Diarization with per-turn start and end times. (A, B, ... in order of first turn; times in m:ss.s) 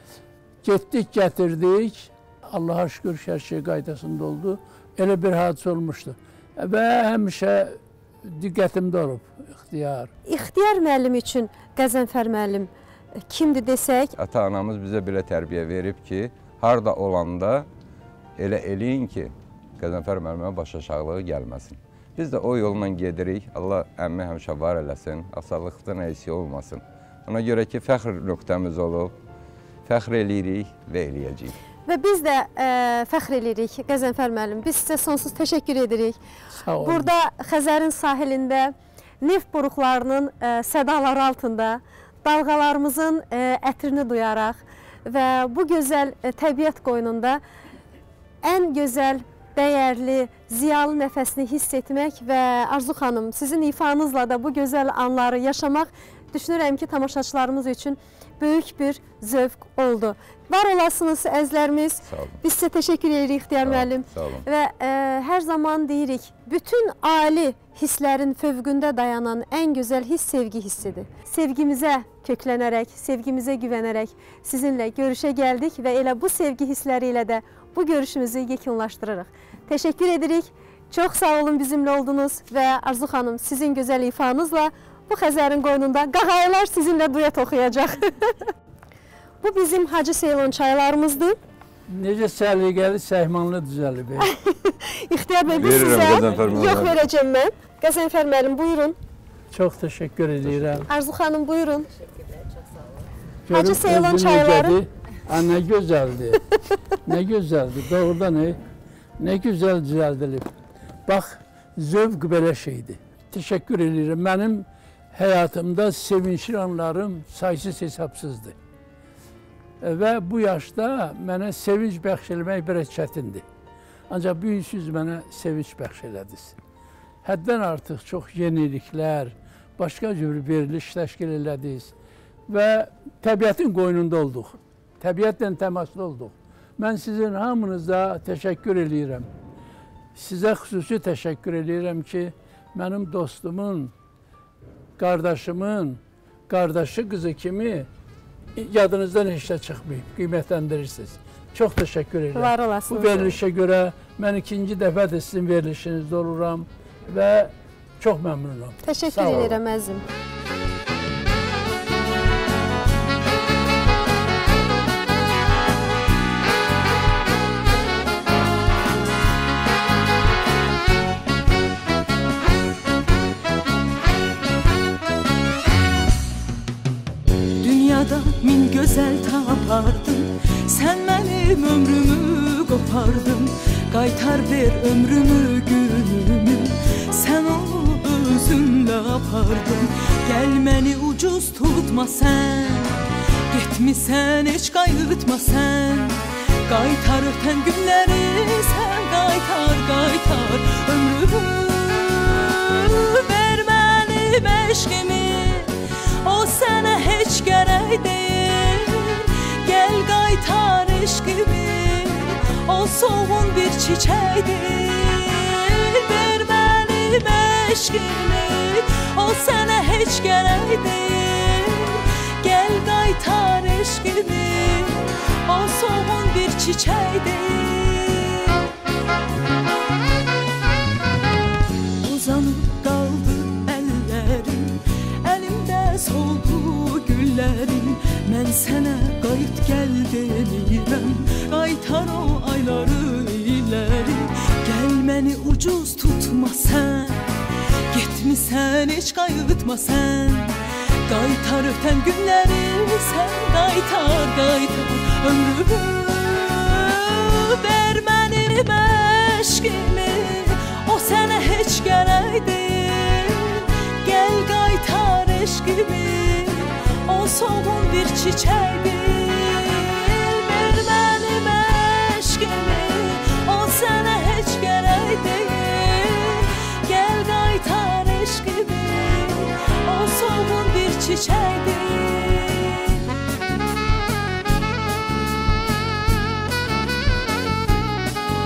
0:00.6-0:10.1 A
0:10.3-0:12.7 B
0:13.3-0:14.1 B
0:14.2-0:17.7 C
0:18.4-0:29.2 C
0:29.9-0:31.6 C
0:31.9-0:36.2 B
0:36.5-0:37.1 A
0:36.8-0:47.4 B
0:48.4-1:28.5 B
1:02.1-1:02.4 C
1:03.6-1:04.5 C
1:29.4-1:31.4 B
1:31.9-1:34.3 A
1:34.2-1:39.0 B
1:35.5-1:37.0 C
1:39.5-1:40.9 A
1:40.9-1:42.0 B
1:43.5-1:46.4 A
1:43.5-1:44.8 B
1:47.1-1:48.6 A
1:49.2-1:50.5 A
1:51.1-1:58.6 A
1:59.8-2:03.4 A
2:04.1-2:06.6 A
2:07.2-2:11.9 A
2:12.5-2:19.3 A
2:20.2-2:23.9 A
2:25.0-2:27.9 A
2:28.6-2:39.6 A
2:32.3-2:33.4 B
2:38.8-2:40.0 B
2:57.6-3:13.0 D
3:13.5-3:48.6 D
3:52.0-4:07.3 D
4:07.9-4:10.5 D
4:11.1-4:43.1 D